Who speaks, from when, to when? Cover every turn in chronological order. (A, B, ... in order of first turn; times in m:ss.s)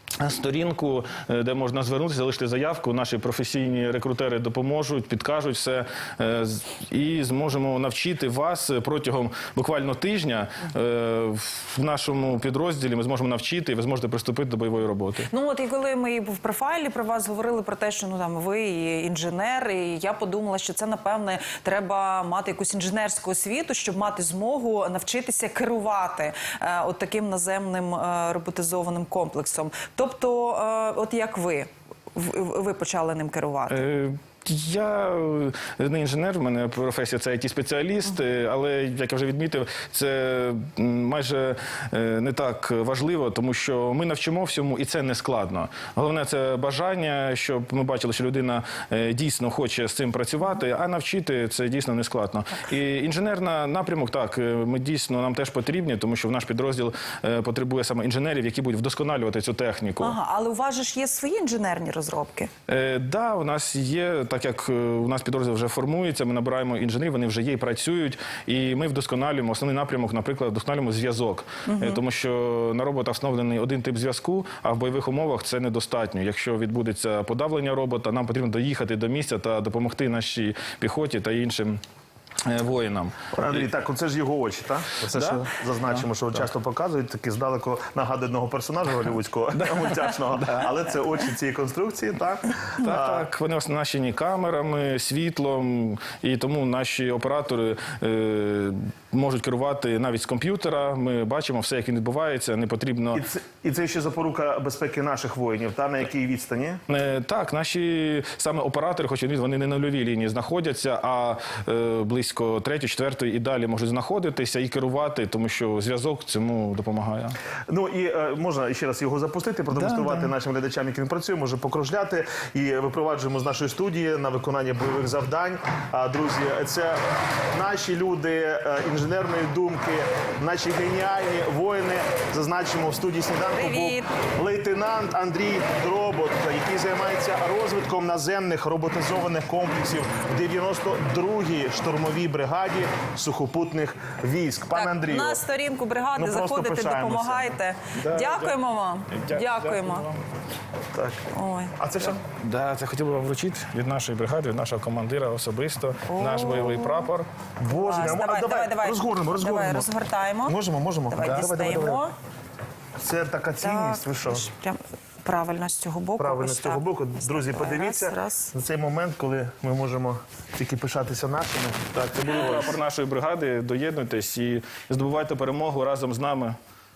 0:00.2-0:15.3 A
0:15.3-0:33.8 B
0:33.7-1:00.2 A
1:00.0-1:02.5 B
1:02.7-1:21.8 A
1:11.7-1:12.0 B
1:22.4-1:23.7 A
1:23.4-1:33.2 C
1:25.1-1:26.1 A
1:29.6-1:30.7 A
1:32.8-1:43.2 A
1:43.1-1:46.8 C
1:46.9-1:57.4 A
1:57.7-2:07.0 C
1:59.7-2:00.3 A
2:07.5-2:25.4 C
2:13.5-2:14.1 B
2:24.7-2:30.1 B
2:26.2-2:27.5 C
2:28.0-2:30.2 A
2:30.9-2:31.2 C
2:31.3-2:32.1 B
2:31.8-2:32.2 C
2:32.3-2:37.3 A
2:36.1-2:37.1 B
2:37.6-2:39.9 C
2:37.7-2:40.6 B
2:40.5-2:42.0 C
2:41.1-2:42.1 B
2:43.0-2:44.5 C
2:43.6-2:48.5 B
2:46.2-2:52.8 C
2:52.0-2:56.6 A